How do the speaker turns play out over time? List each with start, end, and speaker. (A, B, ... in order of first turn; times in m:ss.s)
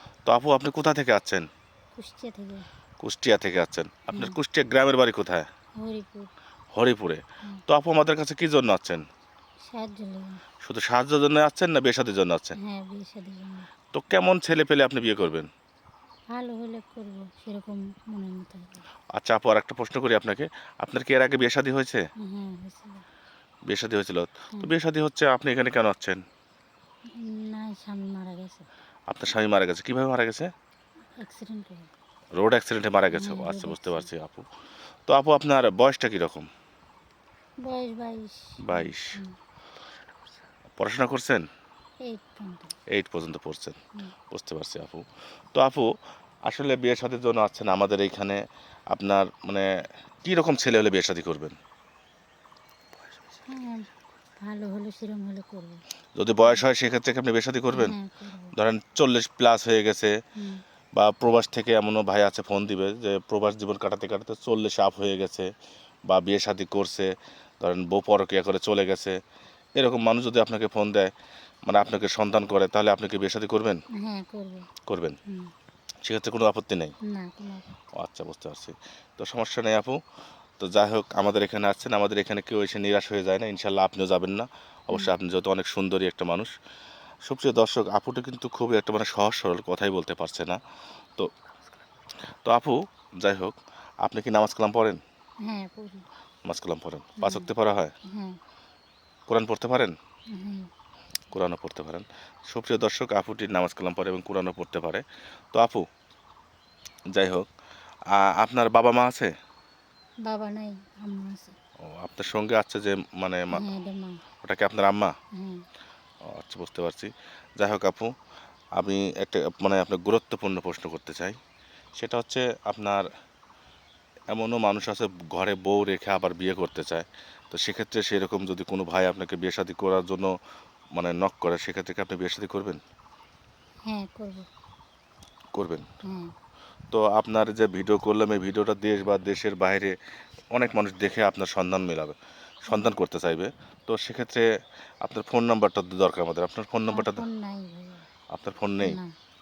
0:00.3-0:01.5 A
0:02.0-0:02.6 B
0:03.0-0:05.4 A
0:05.8-0:06.3 B
0:06.7-0:09.0 A
0:09.6-0:10.4 B
0:10.6-0:12.6 A
0:12.6-0:13.7 B
0:13.9-0:15.5 A
0:16.3-0:18.8 B
0:19.2-0:22.0 A
0:22.2-0:23.0 B
0:23.7-0:26.2 A
0:27.2-0:28.7 B
0:29.1-0:30.5 A
0:31.2-0:31.9 B
0:32.4-0:34.4 A
0:33.1-0:34.1 B
0:35.1-0:36.5 A
0:37.6-0:39.3 B
0:38.6-0:39.2 A
0:40.8-0:41.4 A
0:42.0-0:42.8 B
0:42.9-0:43.8 A
0:44.3-0:45.9 A
0:46.5-0:48.4 A
0:48.9-0:49.6 A
0:50.2-0:51.6 A
0:53.4-0:53.9 B
0:54.4-0:55.8 B
0:56.2-0:57.9 A
0:57.7-0:58.5 B
0:58.5-1:00.1 A
1:00.4-1:00.6 B
1:00.9-1:05.5 A
1:06.0-1:09.2 A
1:09.8-1:11.1 A
1:11.6-1:13.8 A
1:14.0-1:14.7 B
1:14.8-1:15.2 A
1:16.0-1:16.9 A
1:17.1-1:17.8 B
1:17.9-1:20.0 A
1:20.6-1:26.5 A
1:27.2-1:30.6 A
1:32.4-1:35.0 A
1:35.4-1:36.1 B
1:36.4-1:37.9 A
1:37.2-1:37.5 B
1:38.0-1:38.4 B
1:39.3-1:39.9 A
1:40.3-1:40.7 B
1:41.3-1:45.8 A
1:47.1-1:47.5 A
1:48.1-1:49.3 A
1:50.2-1:51.6 B
1:51.9-1:53.6 A
1:53.5-1:54.2 B
1:54.4-1:55.1 A
1:55.4-1:55.6 B
1:56.3-1:58.1 A
1:58.8-2:01.4 A
2:02.0-2:03.1 A
2:04.3-2:10.3 A
2:11.0-2:12.8 A
2:13.8-2:14.5 B
2:15.5-2:15.8 A
2:16.0-2:16.3 B
2:16.9-2:19.9 A
2:20.5-2:24.4 A
2:22.7-2:22.9 B
2:25.0-2:27.2 A
2:26.9-2:28.0 B
2:28.3-2:29.0 A
2:28.8-2:29.1 B